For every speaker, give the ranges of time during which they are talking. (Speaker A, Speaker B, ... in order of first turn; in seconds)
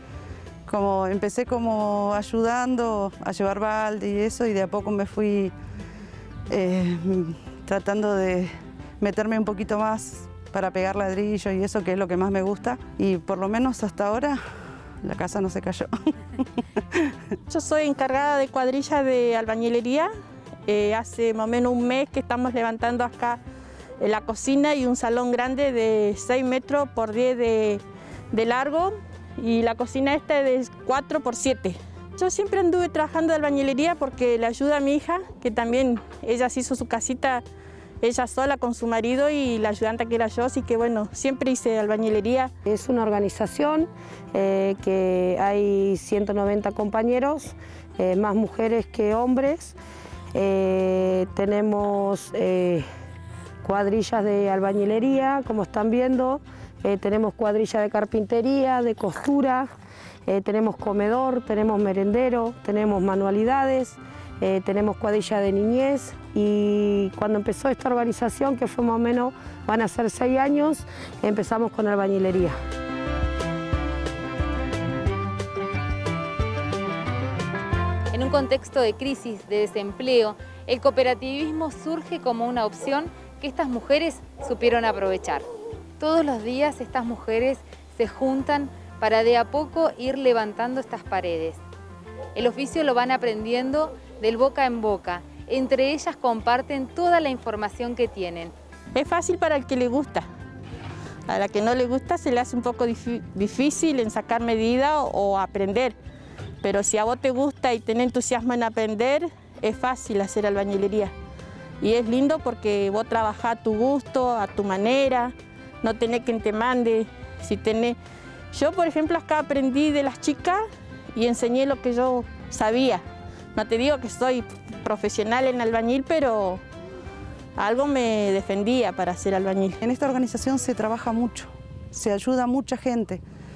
Speaker A: 0.7-5.5, 6.5-14.4, 15.0-17.1, 129.8-133.2
Speaker B: 17.5-20.1, 20.7-23.4, 24.0-37.4, 38.0-42.5, 98.9-100.2, 101.3-105.9, 106.6-111.1, 111.8-118.0, 118.5-123.0, 123.5-126.6, 127.5-129.8
Speaker C: 42.7-49.8, 50.3-52.8, 53.6-59.7, 60.3-72.5
Speaker D: 78.1-85.5, 86.0-91.6, 92.3-98.5